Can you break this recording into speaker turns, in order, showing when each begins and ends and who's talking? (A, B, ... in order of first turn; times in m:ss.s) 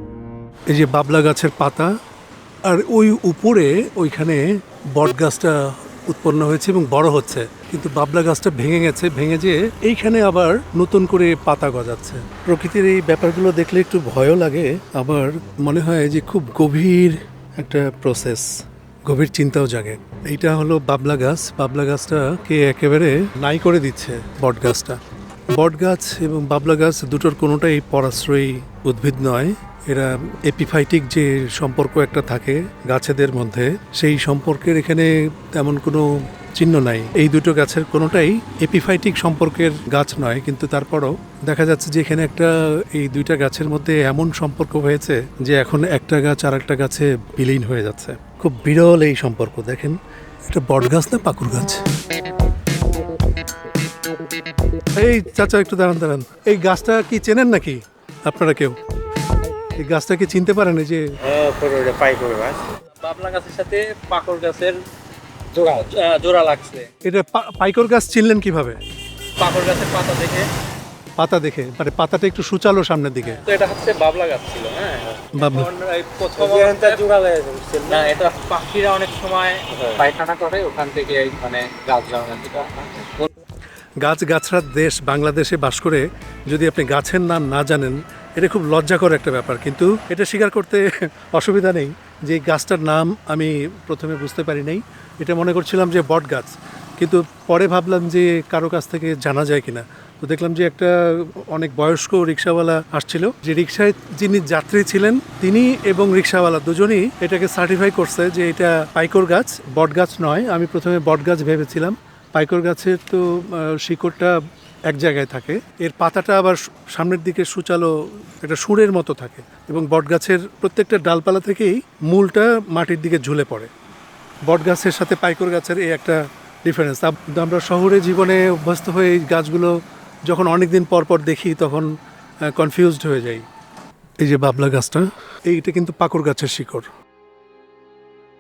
0:00.7-0:01.9 A
0:02.7-0:18.5 A
0:19.1-0:25.0 A
0:25.5-0:51.8 A
0:54.9-0:58.8 A
0:59.8-1:01.0 A
1:01.2-1:02.6 B
1:03.0-1:04.8 C
1:05.5-1:06.9 C
1:07.0-1:08.8 A
1:09.4-1:10.5 C
1:11.2-1:13.4 A
1:13.4-1:17.0 C
1:15.3-1:15.7 A
1:16.4-1:18.1 B
1:17.9-1:23.3 C
1:19.8-1:20.0 B
1:24.0-1:54.4 A
1:54.9-2:03.7 A
2:04.5-2:09.8 A
2:10.3-2:11.9 A
2:12.5-2:13.4 A
2:14.2-2:16.9 A